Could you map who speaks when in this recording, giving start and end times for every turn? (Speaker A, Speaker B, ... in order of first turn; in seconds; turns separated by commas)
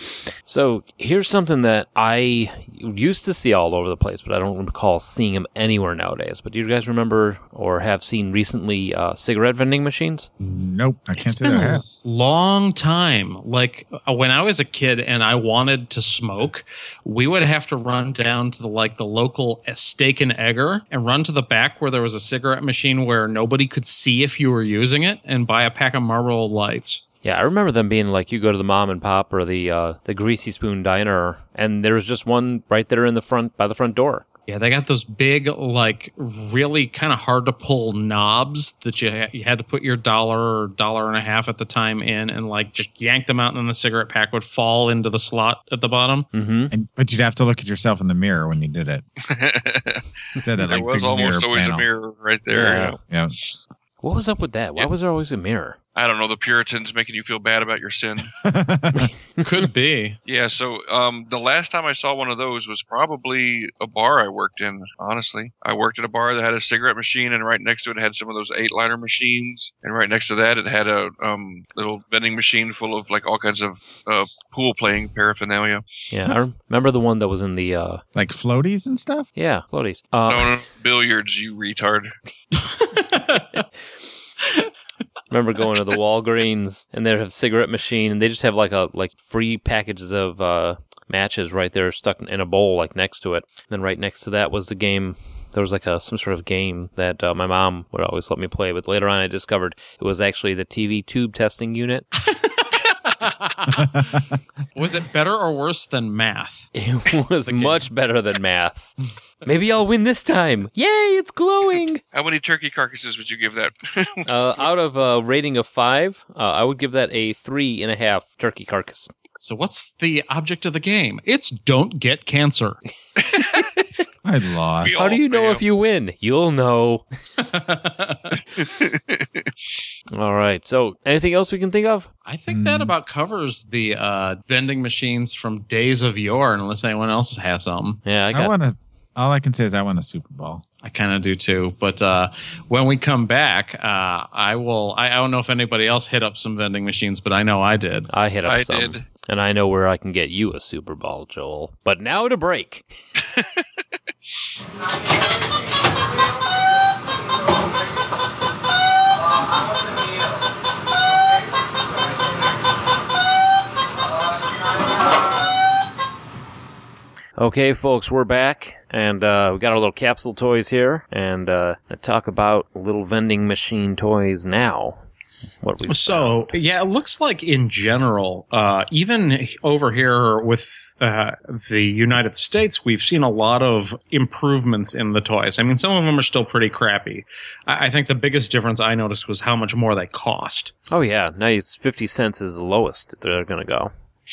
Speaker A: 0.5-10.3, Speaker B: 10.4-11.8, Speaker C: 11.3-27.0, Speaker A: 27.2-34.3, Speaker C: 34.5-46.3, Speaker A: 46.3-46.7, Speaker B: 46.7-49.0, Speaker D: 49.2-50.0, Speaker B: 50.4-51.9, Speaker D: 50.6-53.0, Speaker A: 52.5-53.0, Speaker B: 53.0-53.4, Speaker A: 54.0-55.8, Speaker D: 56.0-58.3, Speaker B: 58.4-59.1, Speaker C: 59.4-60.2, Speaker D: 60.3-75.8, Speaker A: 76.1-78.0, Speaker B: 78.2-79.3, Speaker A: 79.4-80.5, Speaker D: 80.3-82.1, Speaker C: 82.7-83.6, Speaker A: 85.3-102.1, Speaker C: 102.3-104.0, Speaker C: 104.8-106.7, Speaker A: 106.8-108.9, Speaker C: 107.5-107.9, Speaker A: 109.5-112.0, Speaker D: 112.1-114.3, Speaker A: 114.3-119.1, Speaker C: 119.4-122.8, Speaker D: 123.3-123.6, Speaker B: 124.2-125.0, Speaker D: 124.8-125.6, Speaker A: 125.0-127.0, Speaker C: 127.4-128.4, Speaker D: 128.6-129.5, Speaker A: 130.1-132.1, Speaker C: 132.3-138.0, Speaker B: 132.5-132.9, Speaker A: 138.1-138.5, Speaker B: 138.3-140.6, Speaker C: 140.8-148.1, Speaker A: 148.1-152.8, Speaker D: 148.4-149.1, Speaker A: 167.4-175.0, Speaker A: 175.6-176.5, Speaker C: 175.9-190.7, Speaker A: 190.9-193.9